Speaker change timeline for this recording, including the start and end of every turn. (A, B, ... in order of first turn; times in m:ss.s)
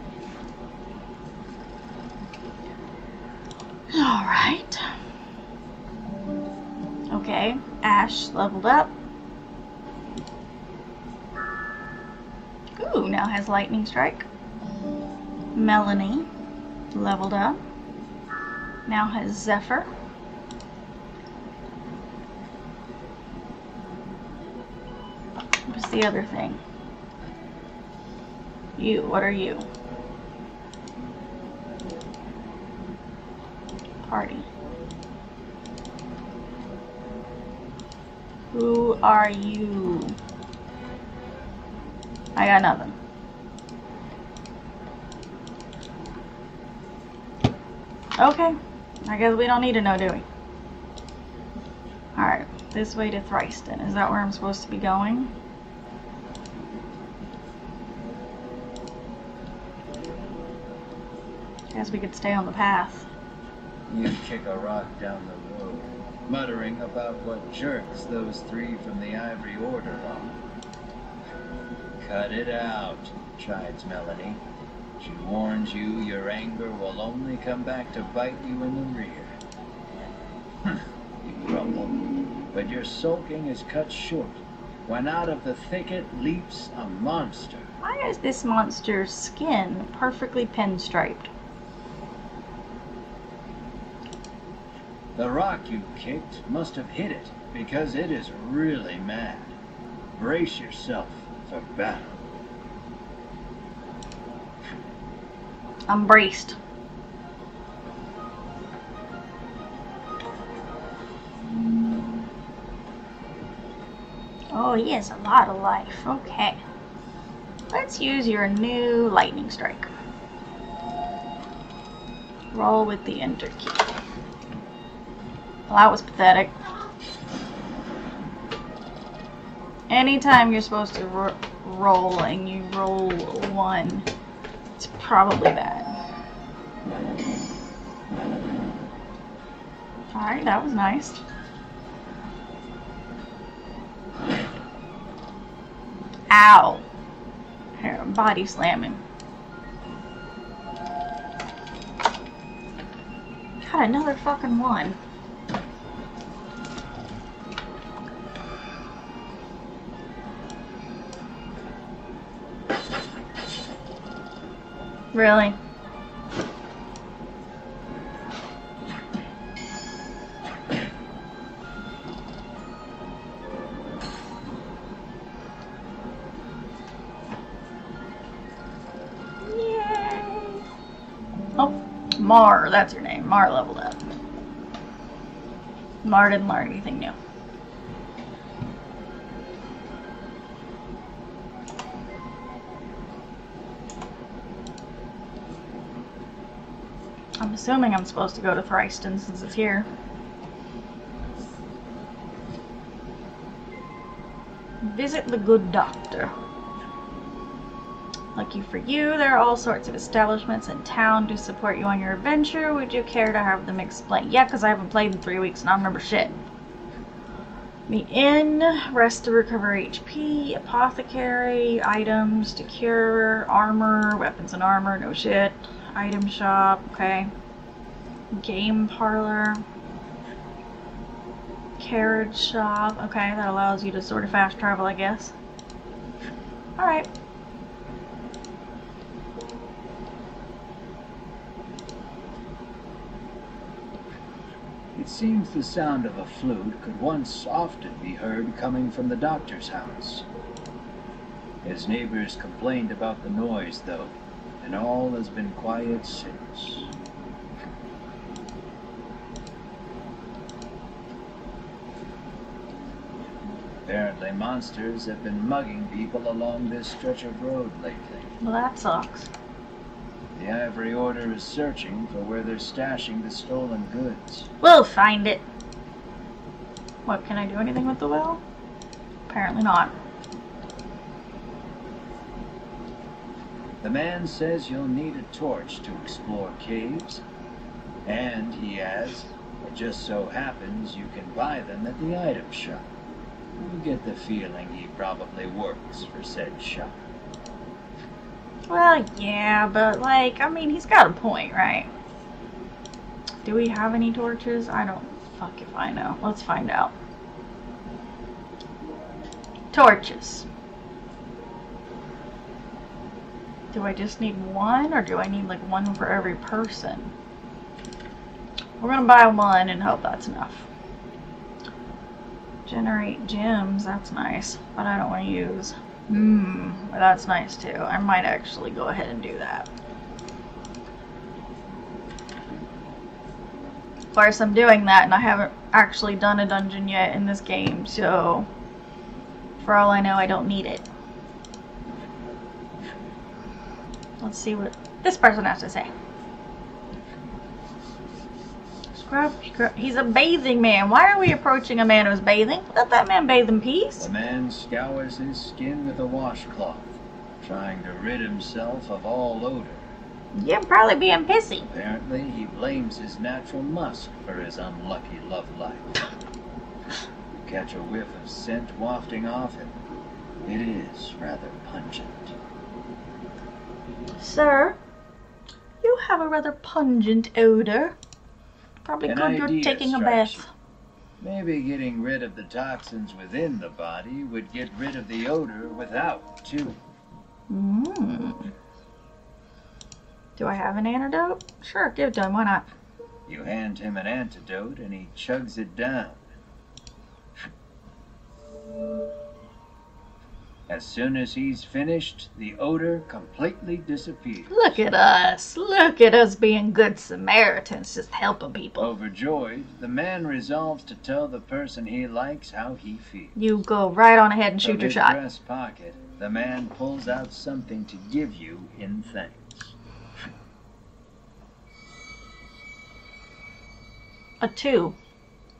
0:03.9-0:04.9 A
0:07.1-0:08.9 A
0:12.8-0:14.3 A
0:15.5-0:16.3 A
0:16.9-0:17.6 A
0:18.8-0:19.9 A
0:25.7-0:26.6 A
0:28.8-0:29.6 A
0:34.0-0:34.5 A
0:38.5-0:40.2 A
0:42.4-0:43.0 A
0:48.2-0:50.2 A
0:52.2-0:55.3 A
1:01.7-1:03.1 A
1:03.9-1:10.4 B
1:12.0-1:14.4 B
1:15.0-1:19.4 B
1:20.6-1:27.7 B
1:27.8-1:31.3 A
1:35.2-1:39.6 B
1:40.2-1:42.2 B
1:45.9-1:46.6 A
1:54.5-1:56.6 A
1:57.7-1:59.9 A
2:02.5-2:03.9 A
2:05.7-2:06.5 A
2:09.9-2:14.0 A
2:14.8-2:15.9 A
2:20.1-2:21.2 A
2:26.3-2:26.8 A
2:27.8-2:29.0 A
2:33.6-2:35.0 A
2:45.1-2:45.6 A
2:59.4-3:00.6 A
3:01.6-3:04.0 A
3:06.0-3:07.1 A
3:17.4-3:19.9 A
3:24.8-3:26.3 A
3:28.4-3:36.3 A
3:37.9-3:47.3 A
3:48.3-3:49.6 A
3:51.8-3:55.3 A
3:56.8-3:57.1 A
4:04.9-4:10.3 B
4:11.6-4:16.9 B
4:23.8-4:28.3 B
4:28.4-4:29.3 A
4:30.3-4:34.5 B
4:34.6-4:35.4 A
4:37.0-4:38.4 A
4:39.3-4:40.0 A
4:43.8-4:47.2 B
4:48.0-4:52.9 B
4:53.6-4:57.0 B
4:58.7-5:01.9 A
5:03.4-5:06.9 A
5:09.7-5:10.4 A
5:13.7-5:17.1 A
5:18.8-5:20.7 A
5:22.6-5:29.7 A
5:34.1-5:38.5 A
5:39.6-5:40.8 A
5:44.2-5:45.9 A
5:48.9-5:54.1 A
5:54.0-5:59.9 B
6:00.3-6:01.7 A
6:01.7-6:05.9 B
6:07.4-6:09.8 B
6:10.4-6:12.4 B
6:14.2-6:14.8 A
6:15.8-6:18.0 A
6:18.8-6:20.5 A
6:19.0-6:20.4 B
6:21.2-6:26.8 B
6:27.5-6:28.5 A
6:30.4-6:32.6 A
6:33.3-6:36.2 B
6:40.7-6:44.8 B
6:44.5-6:48.9 A
6:48.8-6:53.4 B
6:53.3-6:55.2 A
6:54.6-6:59.7 B
7:04.4-7:05.0 A